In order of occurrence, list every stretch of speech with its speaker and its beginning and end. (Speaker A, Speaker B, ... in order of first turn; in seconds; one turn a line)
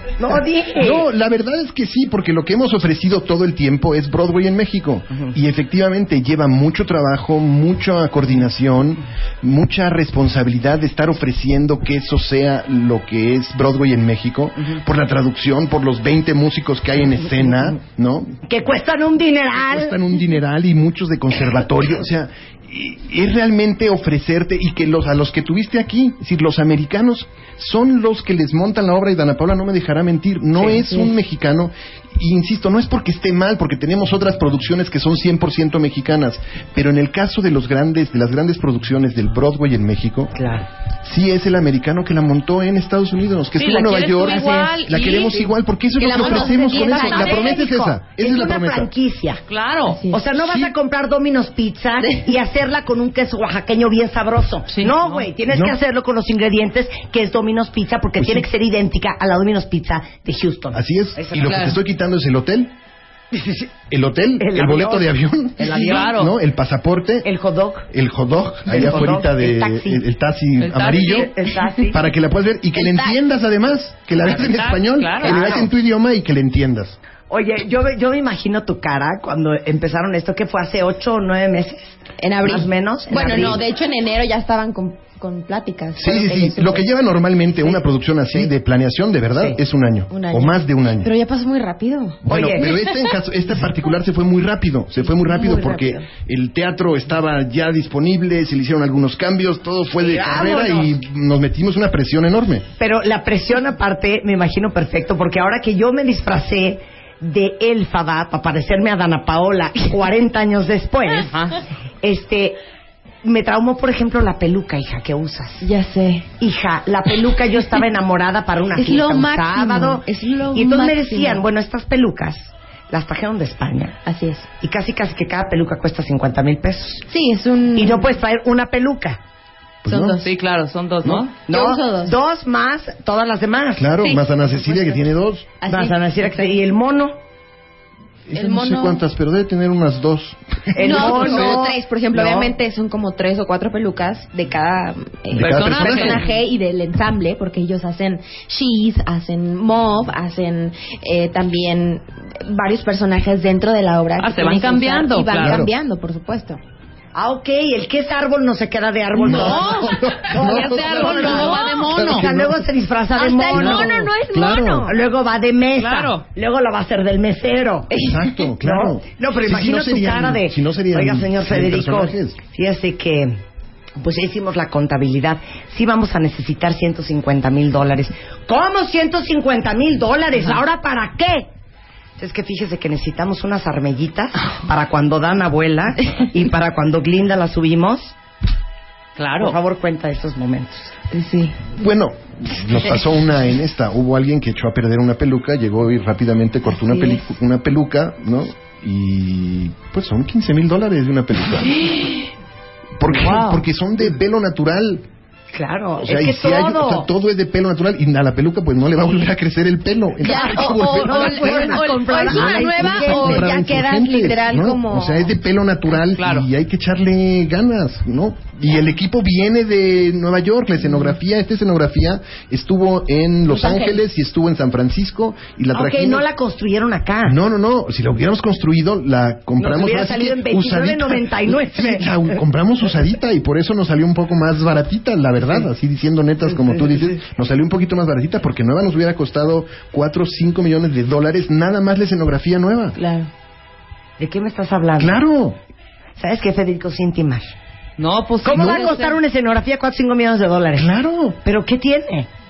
Speaker A: 0.2-1.1
Speaker B: 0.8-18.4
Speaker A: 18.5-20.0
Speaker B: 19.6-40.3
Speaker A: 30.6-30.9
Speaker A: 40.4-40.7
Speaker B: 41.0-48.9
Speaker C: 43.6-45.5
Speaker D: 46.0-48.0
Speaker A: 46.7-49.4
Speaker C: 49.5-50.0
Speaker D: 49.9-50.2
Speaker A: 50.1-61.7
Speaker B: 50.3-50.7
Speaker C: 54.7-55.3
Speaker B: 55.5-55.8
Speaker B: 58.2-58.5
Speaker B: 60.7-62.7
Speaker C: 61.5-61.8
Speaker A: 63.3-63.7
Speaker B: 63.9-67.3
Speaker A: 64.4-66.2
Speaker C: 65.7-66.3
Speaker A: 67.2-67.9
Speaker B: 67.9-71.3
Speaker A: 68.7-70.0
Speaker C: 70.6-71.3
Speaker A: 71.0-72.0
Speaker B: 71.8-77.0
Speaker D: 72.8-73.2
Speaker C: 74.3-75.5
Speaker A: 75.2-75.7
Speaker A: 77.3-83.6
Speaker D: 82.2-86.8
Speaker B: 86.0-91.1
Speaker D: 90.1-92.2
Speaker B: 92.2-102.7
Speaker A: 92.3-92.8
Speaker D: 95.0-96.1
Speaker A: 100.0-100.9
Speaker A: 102.8-111.3
Speaker C: 111.3-111.6
Speaker A: 112.0-112.6
Speaker A: 113.2-115.7
Speaker D: 115.6-116.3
Speaker A: 116.4-120.0
Speaker D: 118.8-121.4
Speaker A: 120.5-124.0
Speaker D: 124.0-124.5
Speaker A: 124.6-127.0
Speaker D: 127.1-128.1
Speaker A: 127.8-129.2
Speaker B: 129.8-130.2
Speaker D: 129.9-130.3
Speaker C: 130.2-131.3
Speaker A: 131.4-133.9
Speaker D: 131.5-132.1
Speaker B: 133.8-135.5
Speaker D: 134.0-135.0
Speaker D: 135.6-136.5
Speaker A: 135.7-137.2
Speaker B: 138.3-141.6
Speaker D: 138.3-139.0
Speaker A: 140.7-142.5
Speaker D: 140.8-156.6
Speaker B: 145.3-146.2
Speaker C: 145.4-146.2
Speaker C: 154.2-155.6
Speaker B: 155.4-155.7
Speaker A: 157.2-164.0
Speaker B: 159.2-162.7
Speaker C: 159.4-159.8
Speaker C: 160.4-162.3
Speaker D: 161.3-161.8
Speaker D: 163.2-164.9
Speaker B: 163.5-164.9
Speaker A: 164.9-167.9
Speaker C: 165.8-166.2
Speaker D: 167.9-168.3
Speaker B: 168.0-172.4
Speaker A: 168.6-173.4
Speaker A: 174.0-181.5
Speaker A: 182.2-188.2
Speaker C: 189.2-189.6
Speaker A: 189.4-190.9
Speaker D: 191.1-191.6
Speaker B: 191.8-201.8
Speaker D: 196.7-197.3
Speaker B: 203.0-205.1
Speaker A: 203.1-203.6
Speaker A: 205.5-207.1
Speaker B: 206.0-226.3
Speaker D: 210.2-215.3
Speaker A: 210.3-213.5
Speaker C: 216.1-216.5
Speaker D: 223.5-224.0
Speaker A: 225.7-227.4
Speaker B: 227.2-243.0
Speaker A: 229.6-232.2
Speaker A: 236.5-237.0
Speaker D: 243.0-243.3
Speaker A: 244.2-245.2
Speaker B: 245.0-245.6
Speaker A: 246.2-247.5
Speaker C: 248.0-249.2
Speaker A: 248.4-250.9
Speaker B: 248.5-248.9
Speaker B: 250.8-251.4
Speaker A: 251.4-252.3